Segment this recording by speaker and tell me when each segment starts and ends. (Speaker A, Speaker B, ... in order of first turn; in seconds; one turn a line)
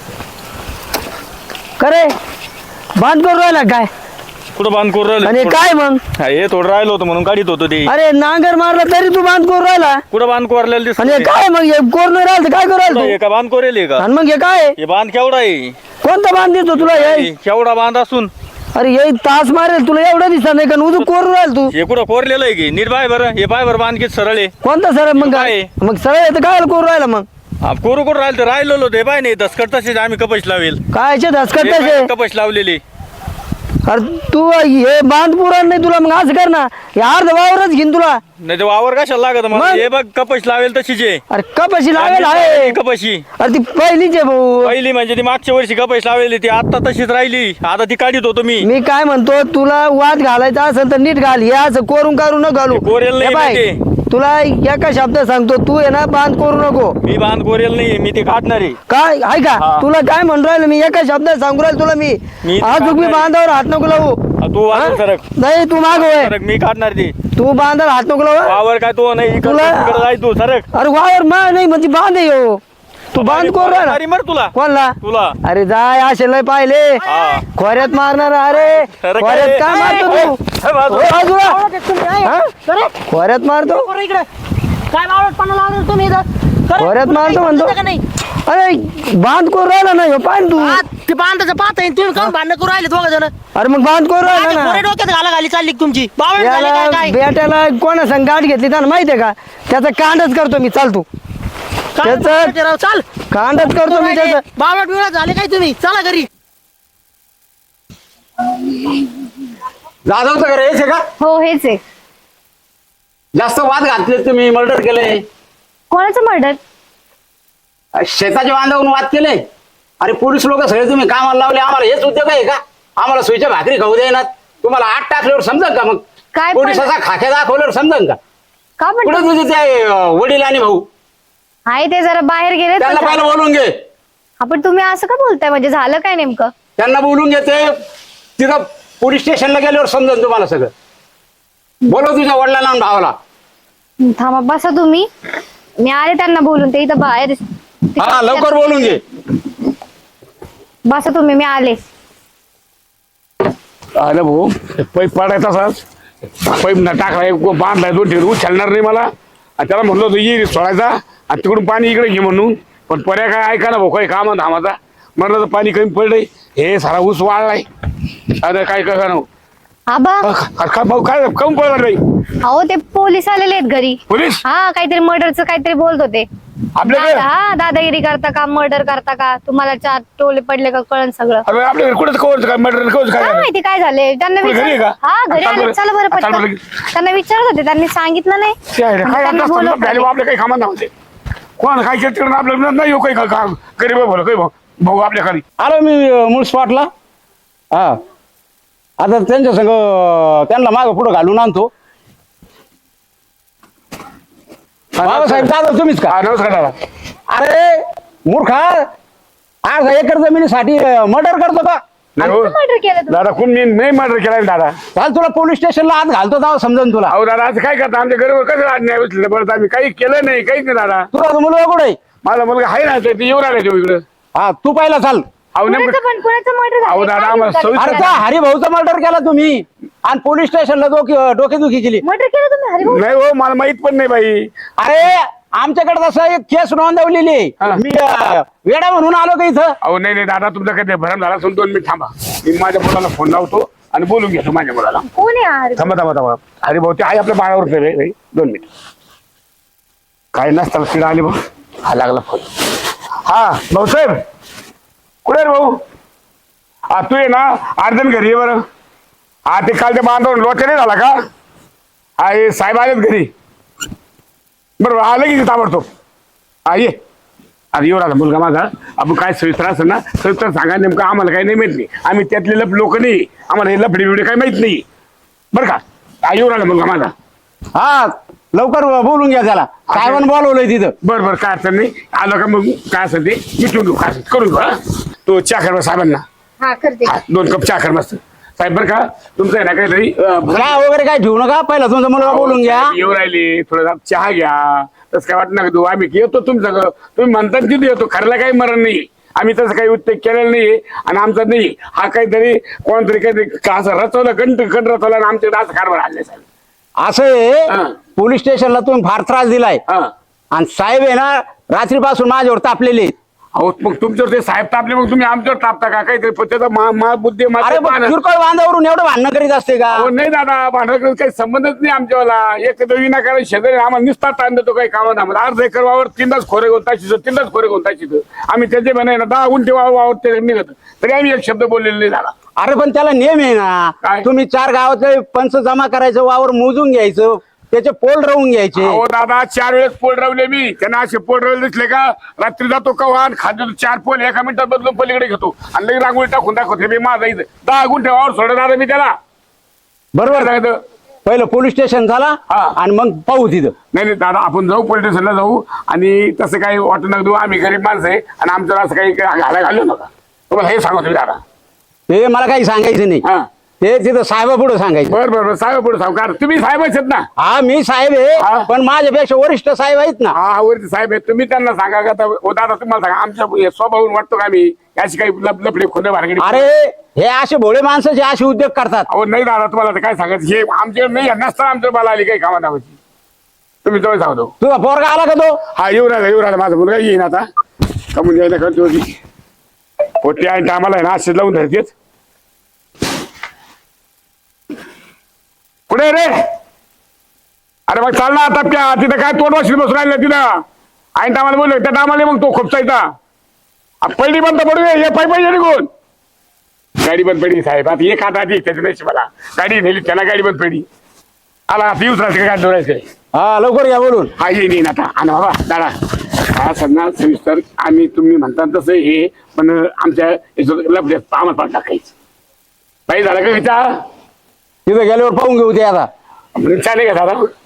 Speaker A: 1.8-2.1
Speaker A: 3.0-3.9
Speaker B: 4.6-7.9
Speaker A: 5.2-6.0
Speaker A: 7.9-10.0
Speaker B: 10.1-11.3
Speaker A: 11.0-13.2
Speaker B: 12.8-14.1
Speaker A: 14.0-14.8
Speaker B: 14.8-15.8
Speaker A: 16.0-17.3
Speaker B: 16.8-18.3
Speaker A: 18.8-21.7
Speaker B: 21.7-24.5
Speaker A: 24.6-27.3
Speaker B: 25.1-25.7
Speaker B: 27.6-30.8
Speaker A: 30.9-32.1
Speaker B: 31.5-32.8
Speaker A: 33.9-38.2
Speaker B: 38.4-41.2
Speaker A: 39.5-39.9
Speaker A: 41.3-42.8
Speaker B: 41.9-43.2
Speaker A: 43.4-44.8
Speaker B: 44.6-48.7
Speaker A: 48.6-57.0
Speaker B: 52.7-53.8
Speaker B: 57.0-58.8
Speaker A: 58.9-66.3
Speaker B: 59.6-59.9
Speaker B: 62.4-63.3
Speaker B: 64.4-65.2
Speaker B: 65.8-67.1
Speaker A: 67.3-68.6
Speaker B: 68.4-70.7
Speaker A: 69.4-70.1
Speaker A: 70.7-72.6
Speaker A: 73.1-74.0
Speaker B: 73.1-75.3
Speaker A: 74.5-81.6
Speaker B: 77.0-77.5
Speaker B: 78.5-81.4
Speaker C: 81.4-82.9
Speaker A: 82.2-82.5
Speaker A: 83.1-83.9
Speaker C: 83.7-84.3
Speaker C: 84.9-88.0
Speaker A: 86.8-87.8
Speaker A: 88.5-90.8
Speaker C: 90.6-93.3
Speaker A: 93.6-94.9
Speaker C: 94.2-97.2
Speaker A: 96.3-101.1
Speaker C: 102.0-103.1
Speaker A: 102.0-102.6
Speaker A: 103.3-104.4
Speaker C: 103.8-106.3
Speaker D: 110.1-111.0
Speaker E: 111.2-111.8
Speaker D: 113.3-115.2
Speaker E: 115.9-116.6
Speaker D: 118.0-119.4
Speaker D: 120.0-126.0
Speaker E: 126.3-126.9
Speaker D: 126.5-128.2
Speaker E: 128.8-129.3
Speaker D: 129.1-130.8
Speaker E: 131.7-133.3
Speaker D: 132.8-133.7
Speaker E: 134.4-136.5
Speaker D: 136.8-137.7
Speaker D: 138.4-140.7
Speaker D: 141.9-143.2
Speaker E: 144.0-145.1
Speaker E: 145.8-148.9
Speaker D: 148.0-149.0
Speaker E: 150.9-151.8
Speaker F: 154.0-155.8
Speaker F: 156.4-167.7
Speaker F: 168.4-169.2
Speaker E: 169.9-170.3
Speaker F: 170.2-172.0
Speaker E: 172.4-176.3
Speaker F: 174.1-174.4
Speaker F: 176.8-177.3
Speaker E: 176.9-181.4
Speaker F: 181.5-183.5
Speaker E: 183.2-190.1
Speaker F: 184.4-186.6
Speaker F: 188.7-190.9
Speaker F: 191.6-195.4
Speaker D: 195.6-196.9
Speaker D: 199.0-201.7
Speaker F: 204.9-205.5
Speaker D: 205.0-206.2
Speaker F: 206.1-206.8
Speaker D: 207.3-208.9
Speaker D: 209.7-211.8
Speaker F: 212.2-212.6
Speaker E: 212.2-213.2
Speaker F: 213.1-214.8
Speaker D: 214.9-217.1
Speaker F: 217.1-221.1
Speaker D: 221.1-222.0
Speaker F: 222.2-224.0
Speaker D: 224.4-225.2
Speaker F: 225.6-226.0
Speaker E: 225.7-228.2
Speaker F: 226.8-228.2
Speaker D: 227.8-232.0
Speaker E: 232.0-233.1
Speaker F: 232.8-234.5
Speaker D: 234.8-239.8
Speaker F: 239.8-245.1
Speaker E: 245.1-245.9
Speaker F: 245.8-248.7
Speaker F: 250.3-252.5
Speaker F: 253.3-254.2
Speaker F: 255.2-255.7
Speaker F: 256.9-258.6
Speaker F: 259.5-261.1
Speaker F: 262.2-263.3
Speaker F: 264.8-265.9
Speaker F: 266.7-266.9
Speaker F: 267.7-274.8
Speaker F: 275.5-277.1
Speaker D: 277.8-280.9
Speaker F: 279.9-280.2
Speaker F: 281.0-284.8
Speaker F: 285.3-286.2
Speaker E: 286.6-287.1
Speaker F: 287.1-290.9
Speaker D: 290.5-292.9
Speaker F: 292.2-306.4
Speaker D: 307.0-309.8
Speaker F: 307.7-307.9
Speaker D: 310.5-313.1
Speaker F: 313.6-318.1
Speaker D: 317.6-320.1
Speaker F: 319.9-332.3
Speaker D: 332.6-339.0
Speaker F: 338.8-349.1
Speaker D: 350.1-350.5
Speaker F: 350.3-350.8
Speaker D: 351.2-353.8
Speaker F: 352.5-352.8
Speaker F: 353.9-361.4
Speaker D: 362.1-363.2
Speaker D: 363.8-365.2
Speaker F: 365.1-367.3
Speaker D: 367.4-370.4
Speaker F: 368.4-368.7
Speaker F: 370.3-376.7
Speaker D: 376.4-379.1
Speaker F: 379.1-382.9
Speaker F: 383.9-384.5
Speaker D: 384.6-385.6
Speaker F: 385.8-387.5
Speaker F: 388.1-389.1
Speaker F: 390.2-391.9
Speaker F: 395.9-396.4
Speaker F: 397.9-400.5
Speaker F: 401.2-403.0
Speaker F: 404.0-405.9
Speaker F: 407.0-410.9
Speaker F: 411.7-413.0
Speaker D: 413.3-414.3
Speaker F: 414.4-422.1
Speaker F: 423.1-423.9
Speaker D: 424.9-426.1
Speaker F: 426.6-427.5